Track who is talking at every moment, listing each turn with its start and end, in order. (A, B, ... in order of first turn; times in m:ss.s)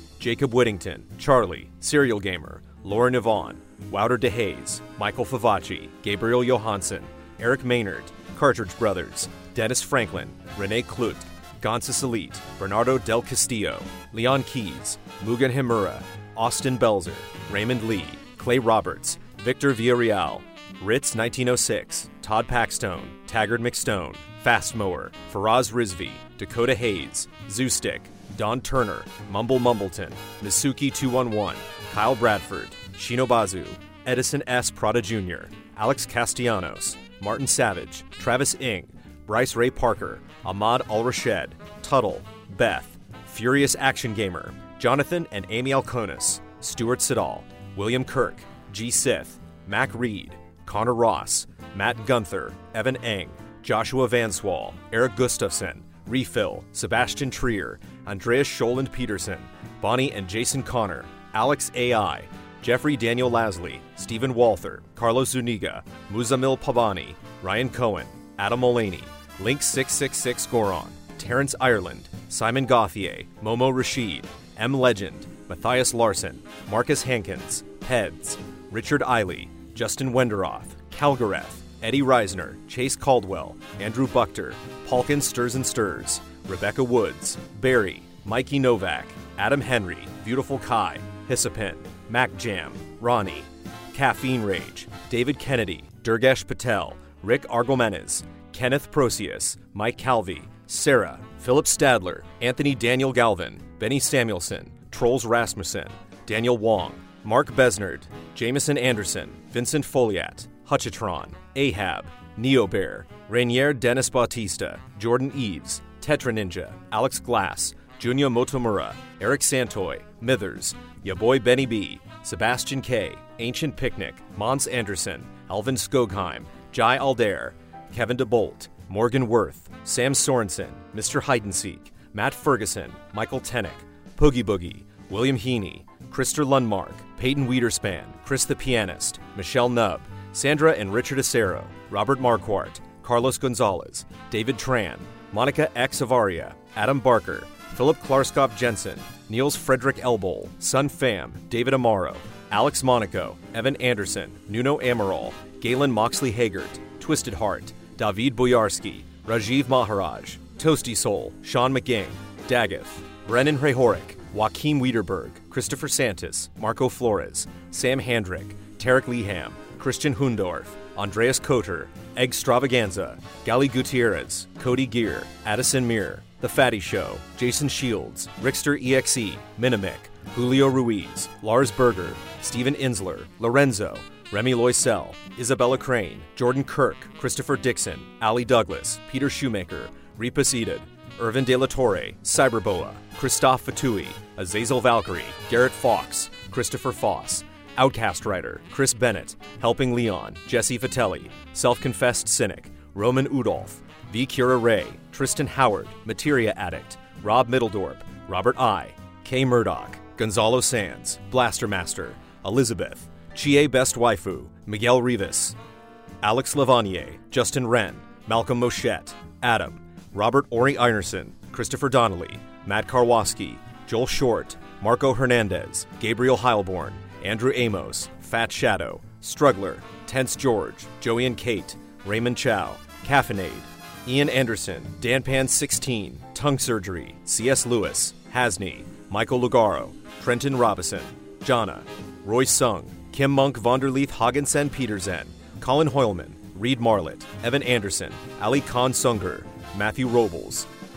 0:00.2-3:35.6 A
3:36.2-4:10.7 A